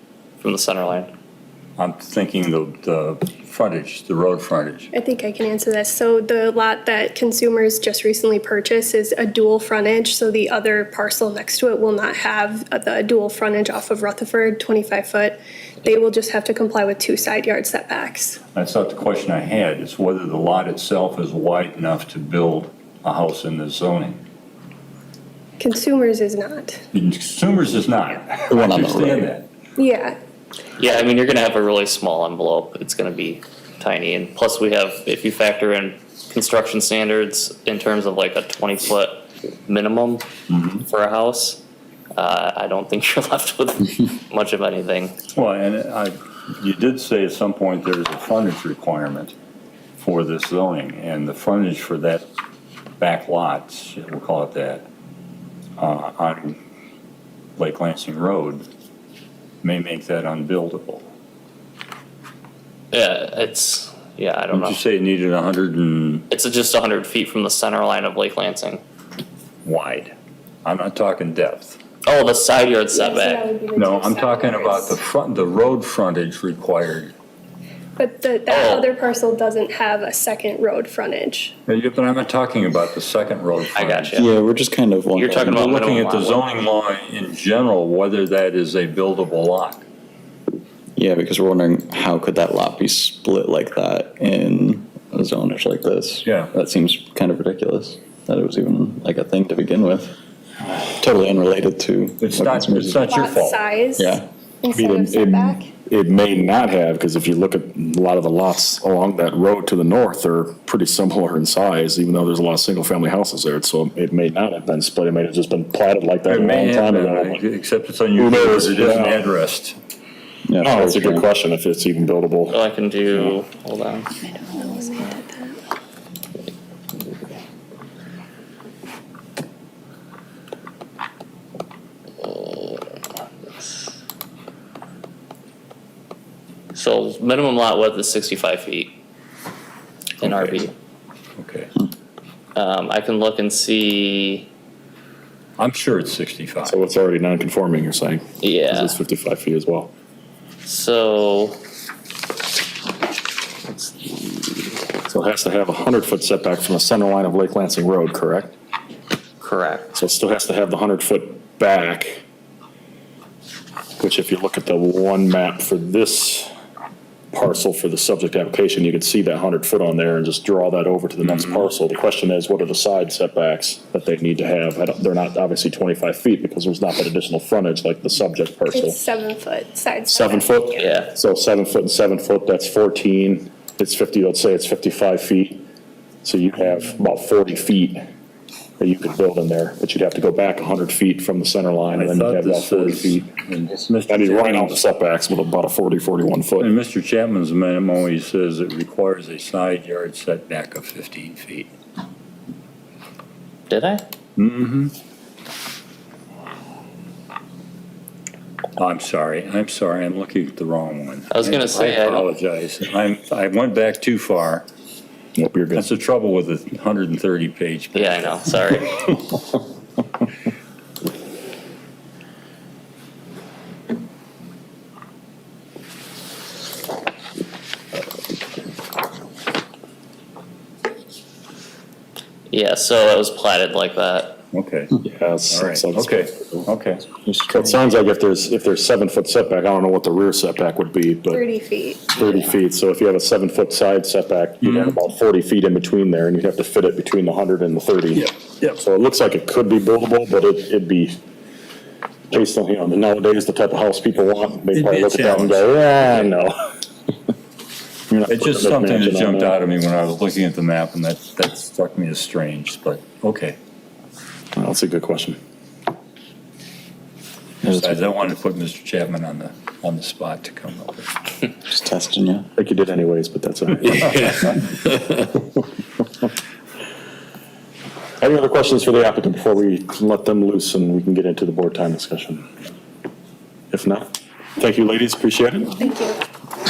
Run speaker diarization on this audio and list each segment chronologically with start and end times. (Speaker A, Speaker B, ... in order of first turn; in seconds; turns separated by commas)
Speaker A: 0.4-1.1, Speaker B: 1.8-4.9, Speaker C: 4.9-18.4, Speaker B: 18.5-24.2, Speaker C: 25.6-26.8, Speaker B: 26.9-29.5, Speaker D: 28.5-29.3, Speaker C: 29.8-30.2, Speaker A: 30.8-40.3, Speaker B: 40.5-40.9, Speaker A: 40.8-41.6, Speaker A: 42.1-45.1, Speaker B: 45.3-49.3, Speaker B: 50.0-52.2, Speaker B: 53.0-54.9, Speaker B: 55.8-56.6, Speaker B: 57.6-58.7, Speaker B: 59.6-61.0, Speaker A: 62.9-64.8, Speaker B: 64.5-66.2, Speaker A: 66.3-68.8, Speaker B: 69.6-71.8, Speaker A: 72.0-73.5, Speaker C: 72.9-75.0, Speaker B: 73.7-77.1, Speaker C: 78.0-81.5, Speaker A: 78.5-78.9, Speaker B: 81.7-84.2, Speaker A: 83.7-84.3, Speaker D: 84.1-85.7, Speaker A: 85.2-86.4, Speaker B: 85.4-89.8, Speaker D: 91.0-100.1, Speaker B: 96.2-96.5, Speaker D: 100.8-103.0, Speaker B: 102.2-103.6, Speaker C: 103.0-105.7, Speaker D: 104.0-104.3, Speaker E: 104.7-117.4, Speaker B: 116.2-119.8, Speaker E: 118.2-119.2, Speaker D: 120.5-121.2, Speaker E: 120.6-122.6, Speaker A: 122.5-124.1, Speaker C: 124.4-125.5, Speaker A: 132.2-132.6, Speaker A: 136.7-138.9, Speaker A: 140.2-140.7, Speaker B: 140.2-140.6, Speaker B: 141.4-141.7, Speaker A: 142.5-144.5, Speaker B: 145.6-146.8, Speaker E: 146.6-149.9, Speaker A: 148.4-149.0, Speaker A: 150.6-151.6, Speaker E: 155.1-158.6, Speaker A: 159.4-159.9, Speaker E: 159.9-162.2, Speaker E: 164.0-166.5, Speaker E: 167.3-179.0, Speaker B: 171.2-171.7, Speaker C: 178.7-180.6, Speaker E: 180.1-185.6, Speaker A: 180.8-181.1, Speaker E: 186.2-188.0, Speaker E: 188.8-193.3, Speaker B: 191.9-194.8, Speaker E: 194.1-196.7, Speaker B: 196.6-201.7, Speaker A: 203.7-204.0, Speaker B: 204.4-204.9, Speaker B: 208.8-214.7, Speaker A: 211.3-212.3, Speaker E: 215.3-215.8, Speaker B: 215.7-218.5, Speaker A: 217.9-219.0, Speaker A: 232.5-234.4, Speaker B: 234.5-234.9, Speaker E: 235.0-236.7, Speaker B: 235.5-237.1, Speaker E: 237.3-241.4, Speaker C: 241.3-242.2, Speaker E: 242.1-251.2, Speaker B: 244.6-245.0, Speaker B: 248.1-248.8, Speaker E: 252.3-256.5, Speaker B: 254.7-256.0, Speaker E: 258.1-259.6, Speaker B: 258.3-263.6, Speaker E: 264.6-265.4, Speaker D: 267.6-268.0, Speaker B: 267.6-271.1, Speaker D: 271.7-272.5, Speaker E: 272.6-274.2, Speaker E: 278.2-282.4, Speaker E: 283.7-285.8, Speaker C: 285.8-286.2